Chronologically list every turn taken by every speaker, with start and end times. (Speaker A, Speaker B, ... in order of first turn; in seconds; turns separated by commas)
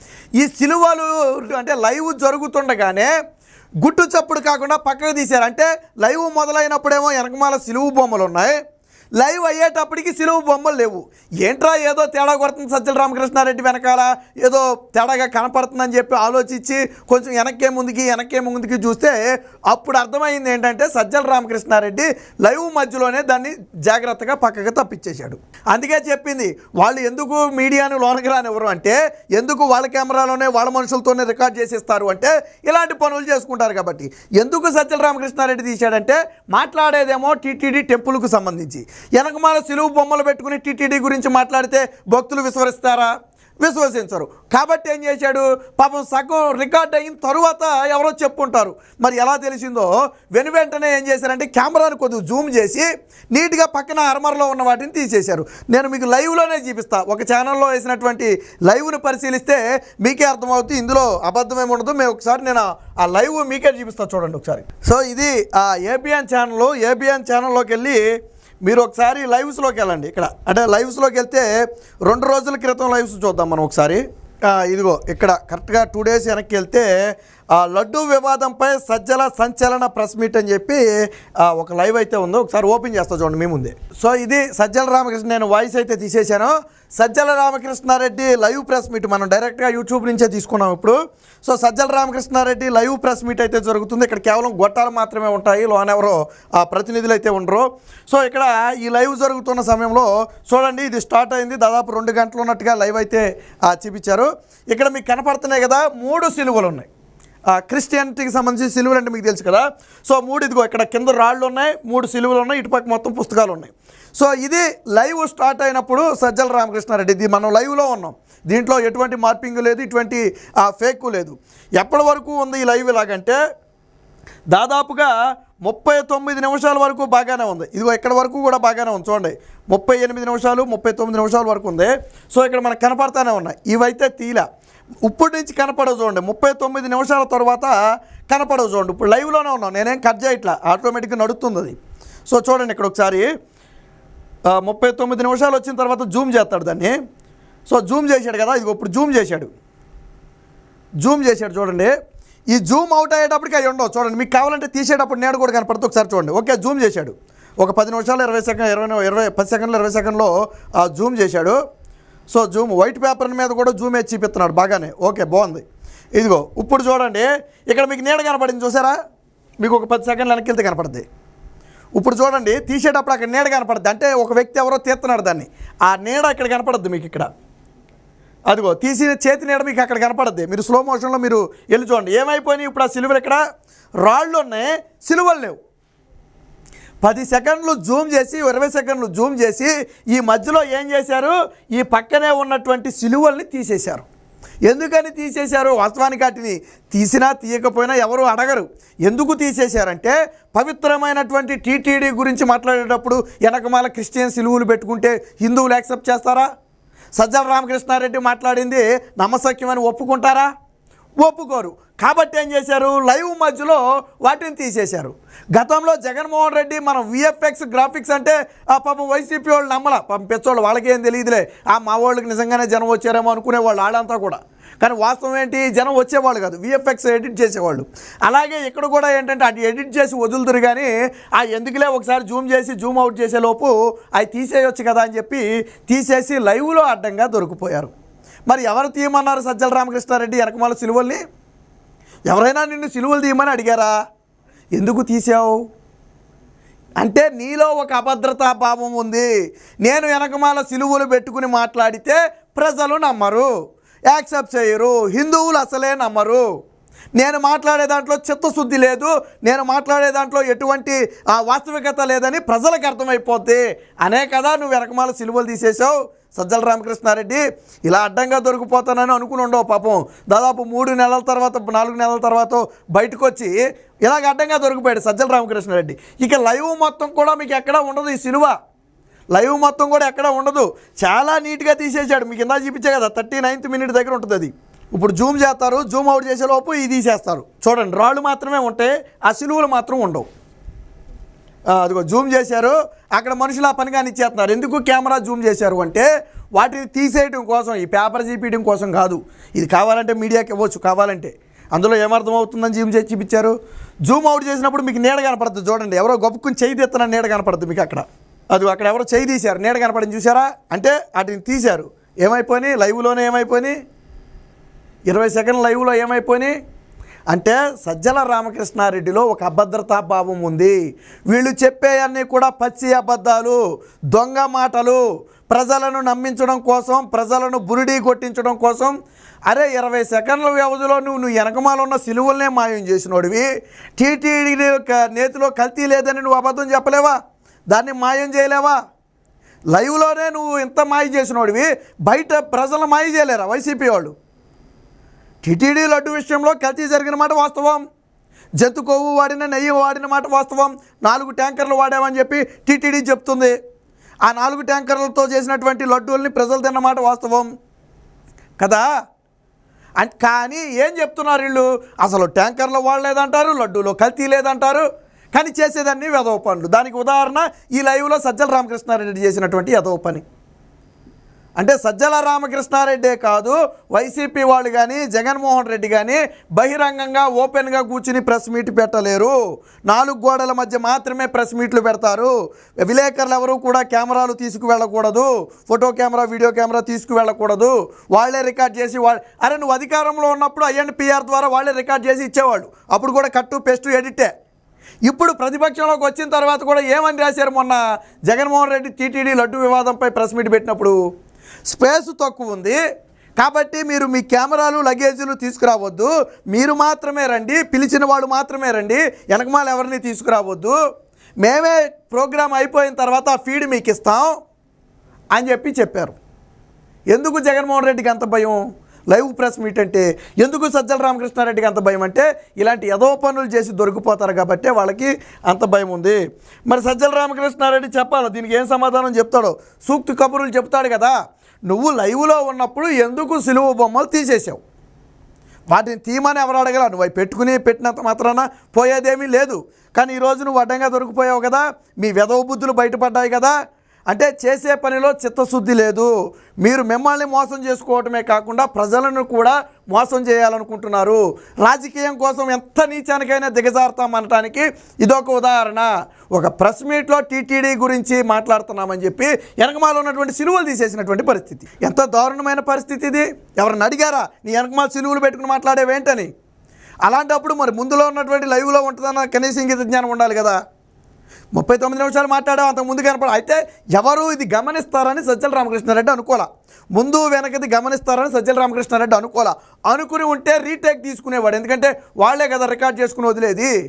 Speaker A: 0.4-3.1, Speaker A: 3.8-8.6, Speaker A: 9.2-43.1, Speaker A: 43.6-68.0, Speaker A: 68.6-71.5, Speaker A: 72.0-76.9, Speaker A: 77.5-80.8, Speaker A: 81.4-106.9, Speaker A: 107.5-123.4, Speaker A: 124.5-134.4, Speaker A: 135.0-137.7, Speaker A: 138.3-141.7, Speaker A: 142.3-143.3, Speaker A: 144.5-147.0, Speaker A: 147.7-149.5, Speaker A: 151.0-151.9, Speaker A: 152.5-161.6, Speaker A: 162.3-165.6, Speaker A: 166.2-168.9, Speaker A: 169.6-171.0, Speaker A: 172.0-177.3, Speaker A: 178.5-183.4, Speaker A: 184.0-185.6, Speaker A: 187.0-194.1, Speaker A: 194.7-206.5, Speaker A: 207.2-210.5, Speaker A: 211.2-237.9, Speaker A: 238.5-241.2, Speaker A: 242.3-243.9, Speaker A: 244.7-245.6, Speaker A: 247.0-249.3, Speaker A: 249.8-253.5, Speaker A: 254.1-256.4, Speaker A: 257.1-278.5, Speaker A: 279.3-290.3, Speaker A: 291.7-313.8, Speaker A: 315.1-316.5, Speaker A: 317.3-320.8, Speaker A: 321.3-323.6, Speaker A: 324.1-328.9, Speaker A: 329.5-337.1, Speaker A: 337.7-338.8, Speaker A: 339.7-344.1, Speaker A: 345.4-347.8, Speaker A: 348.6-353.5, Speaker A: 354.2-357.5, Speaker A: 358.6-358.9, Speaker A: 360.0-370.2, Speaker A: 371.6-379.3, Speaker A: 379.9-394.3, Speaker A: 395.1-400.9, Speaker A: 401.7-402.8, Speaker A: 403.4-410.8, Speaker A: 411.4-414.3, Speaker A: 415.3-416.1, Speaker A: 417.1-431.1, Speaker A: 431.7-434.6, Speaker A: 435.7-443.5, Speaker A: 444.1-466.3, Speaker A: 467.0-470.6, Speaker A: 471.5-483.7